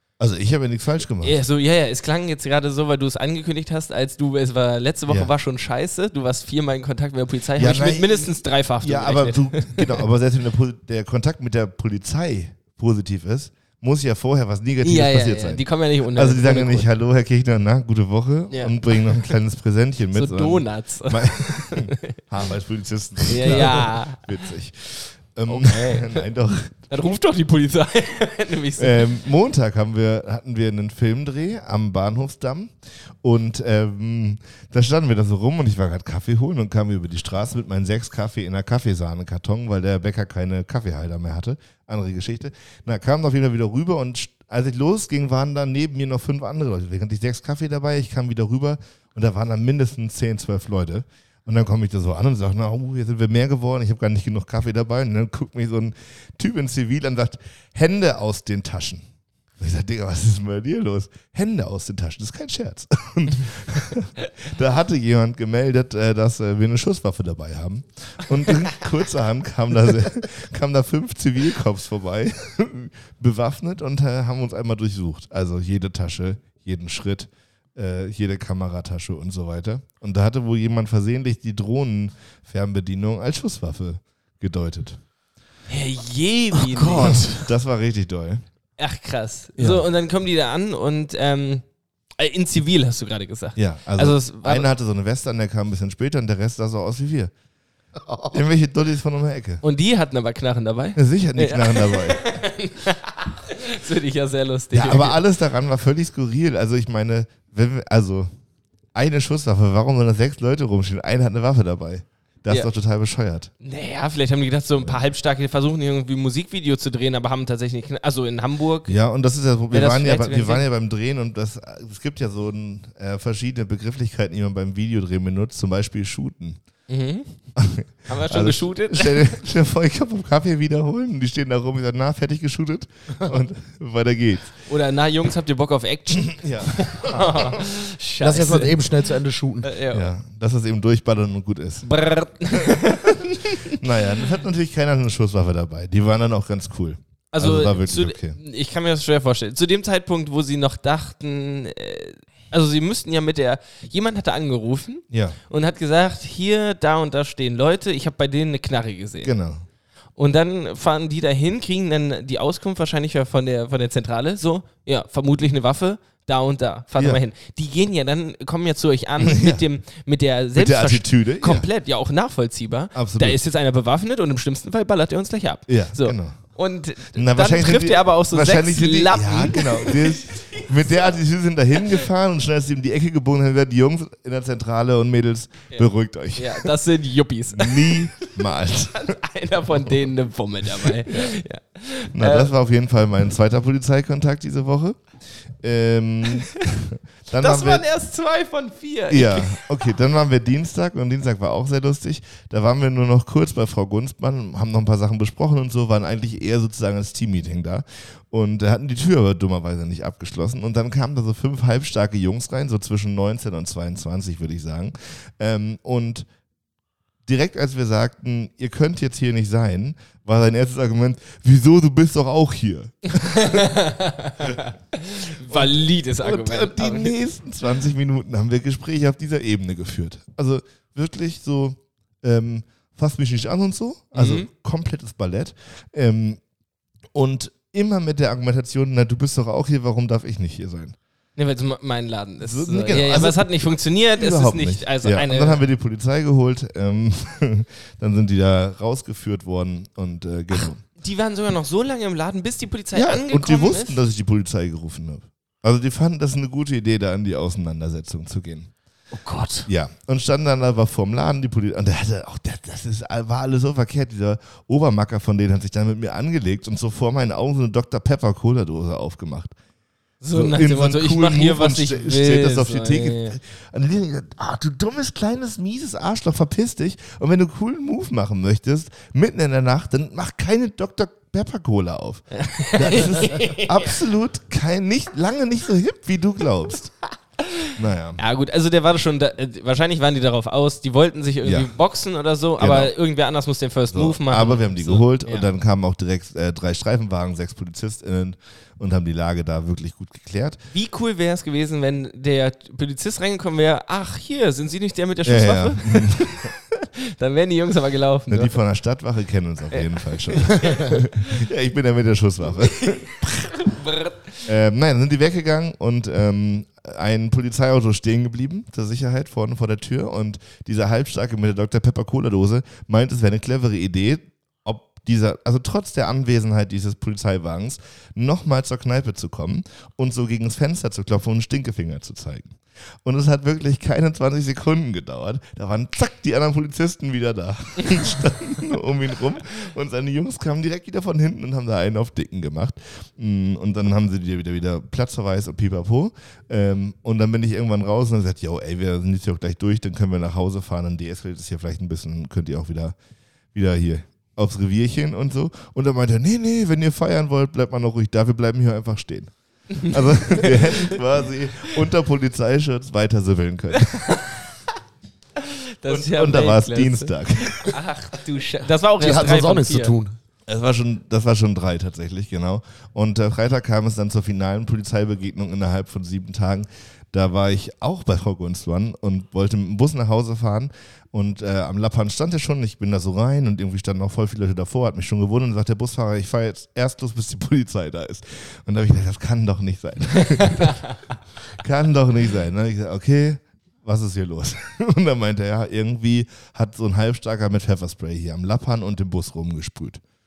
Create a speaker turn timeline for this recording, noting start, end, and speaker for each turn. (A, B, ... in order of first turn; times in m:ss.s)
0:00.2-0:01.4 A
0:01.2-0:10.1 B
0:07.6-0:26.9 A
0:14.8-0:16.9 B
0:18.5-0:19.3 B
0:20.1-0:22.2 B
0:23.2-0:24.3 B
0:25.5-0:26.3 B
0:26.9-0:29.1 B
0:28.8-0:59.0 A
0:59.6-1:25.0 A
1:25.7-1:27.2 B
1:26.6-1:27.5 C
1:27.0-1:28.4 A
1:28.8-1:31.6 B
1:29.6-1:29.8 A
1:32.2-1:34.7 B
1:33.6-1:37.3 A
1:38.3-1:39.6 A
1:39.6-1:45.2 B
1:41.0-1:42.2 A
1:44.7-1:48.3 A
1:48.9-1:53.5 A
1:53.6-1:58.9 B
1:58.9-2:06.6 A
1:59.7-2:00.6 B
2:06.9-2:07.4 B
2:07.6-2:14.6 A
2:08.1-2:09.4 B
2:14.7-2:18.8 B
2:16.3-2:17.6 A
2:18.2-2:19.7 C
2:19.6-2:20.1 B
2:19.9-2:21.9 A
2:21.8-2:23.8 B
2:22.5-2:28.4 A
2:27.3-2:39.3 B
2:35.1-2:35.4 A
2:39.2-2:39.6 A
2:40.2-3:01.2 B
2:47.0-2:47.2 A
2:49.2-2:49.6 A
2:50.6-2:51.7 A
2:52.9-2:53.4 A
2:55.7-2:56.4 A
2:57.1-3:06.7 A
3:05.7-3:08.3 B
3:07.5-3:09.1 A
3:08.9-3:12.5 B
3:10.8-3:11.4 A
3:12.1-3:15.0 A
3:15.6-3:17.8 A
3:17.4-3:19.7 B
3:19.1-3:36.3 A
3:37.2-3:43.7 A
3:43.1-3:47.1 B
3:45.5-3:56.4 A
3:54.1-3:54.5 B
3:57.1-4:01.0 A
4:01.4-4:05.6 B
4:02.4-4:03.5 A
4:04.1-4:10.8 A
4:11.0-4:14.0 B
4:12.9-4:18.7 A
4:19.1-4:19.7 C
4:19.7-4:29.5 A
4:30.2-4:33.4 B
4:30.3-4:46.9 A
4:42.3-4:44.0 B
4:47.4-4:55.5 B
4:47.8-4:48.2 A
4:51.4-4:51.7 A
4:52.6-4:52.9 A
4:53.9-5:00.6 A
5:00.7-5:08.5 B
5:05.2-5:06.5 A
5:08.3-5:13.1 A
5:09.7-5:11.0 B
5:12.8-5:14.5 B
5:14.5-5:53.0 A
5:53.5-6:04.2 A
5:59.7-6:01.0 B
6:03.8-6:04.5 B
6:05.4-6:10.0 B
6:05.9-6:07.8 A
6:09.0-6:10.2 C
6:10.5-6:30.8 A
6:30.3-6:31.0 B
6:31.5-6:40.0 A